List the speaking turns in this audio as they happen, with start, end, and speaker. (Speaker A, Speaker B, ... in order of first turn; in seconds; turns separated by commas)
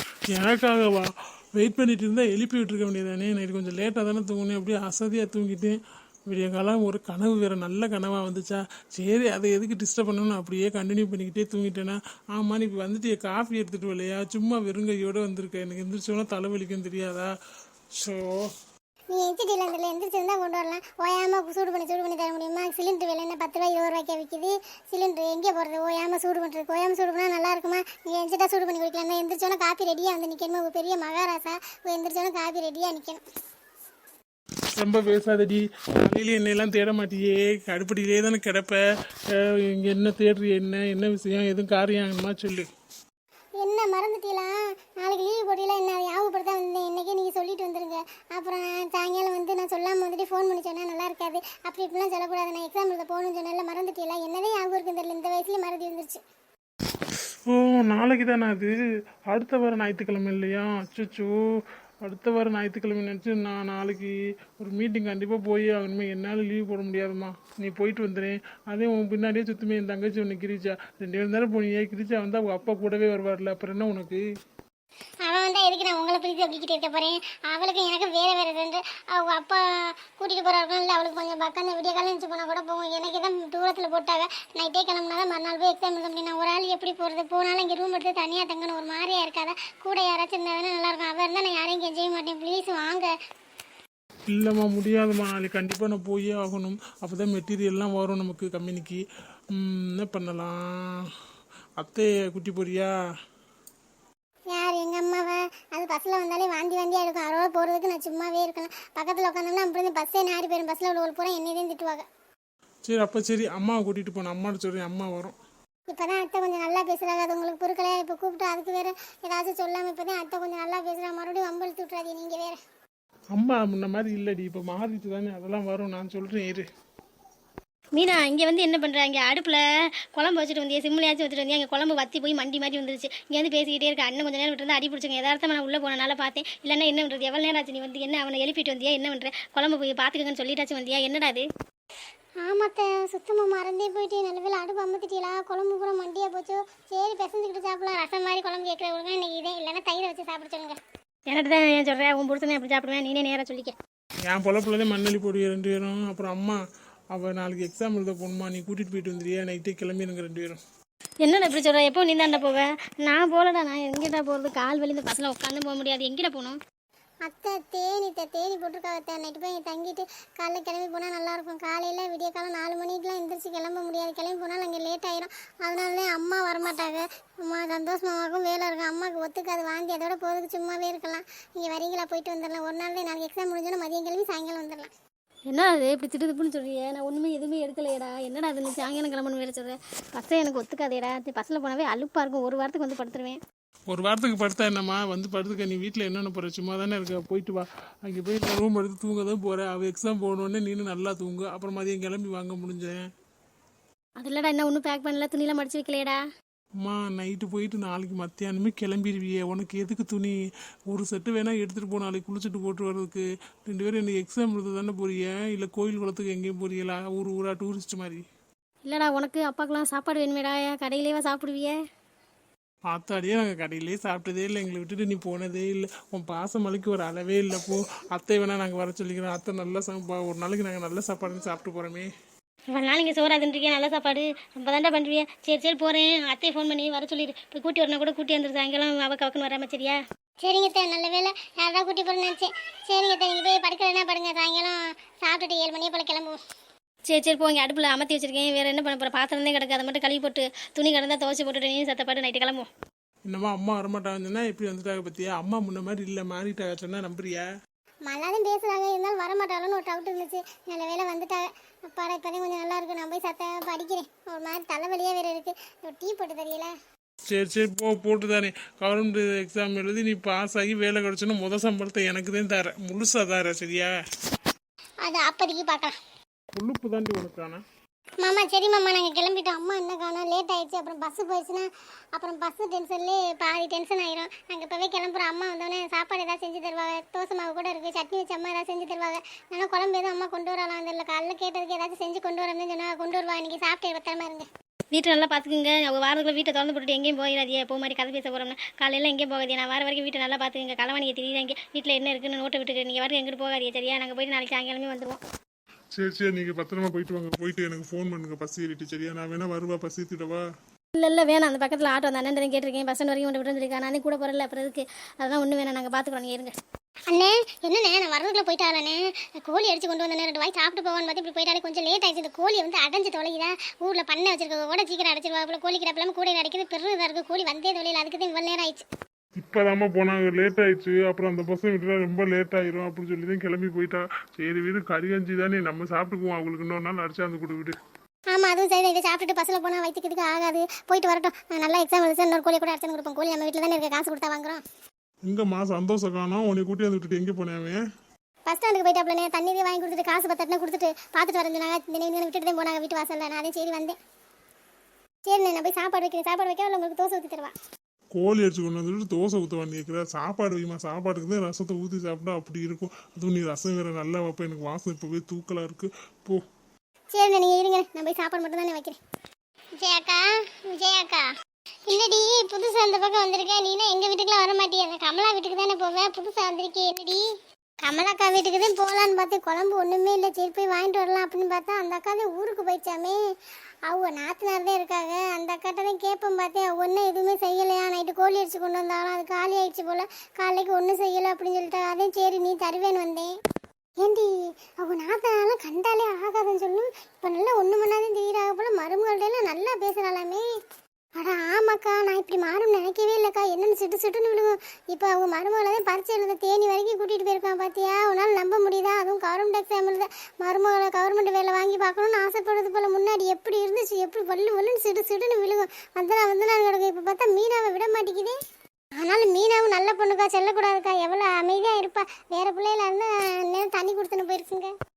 Speaker A: 0.3-5.8, Speaker A: 6.3-17.3, Speaker A: 18.0-18.4, Speaker B: 19.1-33.2, Speaker A: 34.8-38.8, Speaker A: 39.4-42.7, Speaker B: 43.6-56.2, Speaker A: 57.5-58.7, Speaker A: 59.3-61.3, Speaker A: 62.0-74.2, Speaker B: 75.3-79.6, Speaker B: 80.2-93.1, Speaker A: 94.3-99.0, Speaker A: 99.6-100.6, Speaker A: 101.8-102.9, Speaker B: 104.5-112.0, Speaker A: 112.9-115.4, Speaker B: 115.9-122.6, Speaker A: 123.3-126.7, Speaker C: 128.0-129.6, Speaker C: 130.1-141.5, Speaker B: 142.4-150.8, Speaker C: 151.3-153.8, Speaker A: 154.3-156.6, Speaker A: 157.1-160.6, Speaker C: 161.2-166.6, Speaker B: 167.3-184.9, Speaker C: 185.5-193.4, Speaker A: 193.9-203.1, Speaker C: 204.2-206.2, Speaker A: 206.8-210.4, Speaker A: 210.9-218.2, Speaker C: 218.8-221.8, Speaker A: 222.9-232.1, Speaker C: 232.7-240.0, Speaker B: 240.4-246.4, Speaker C: 247.1-252.7, Speaker A: 253.3-257.5, Speaker B: 258.1-266.7, Speaker A: 267.3-273.9, Speaker B: 275.1-275.9, Speaker A: 276.6-277.6, Speaker B: 278.2-294.5, Speaker C: 294.9-305.2, Speaker A: 305.9-310.4, Speaker C: 310.9-316.5, Speaker B: 317.1-328.9, Speaker A: 329.4-337.8, Speaker B: 338.3-344.6, Speaker A: 345.2-347.8, Speaker B: 348.5-354.0, Speaker B: 355.3-357.5, Speaker A: 358.1-366.4, Speaker B: 367.1-369.0, Speaker B: 369.8-371.3, Speaker B: 371.9-377.2, Speaker B: 377.9-383.2, Speaker B: 383.9-393.3, Speaker B: 394.0-394.3, Speaker B: 394.8-400.4, Speaker B: 401.2-418.4, Speaker B: 419.0-424.7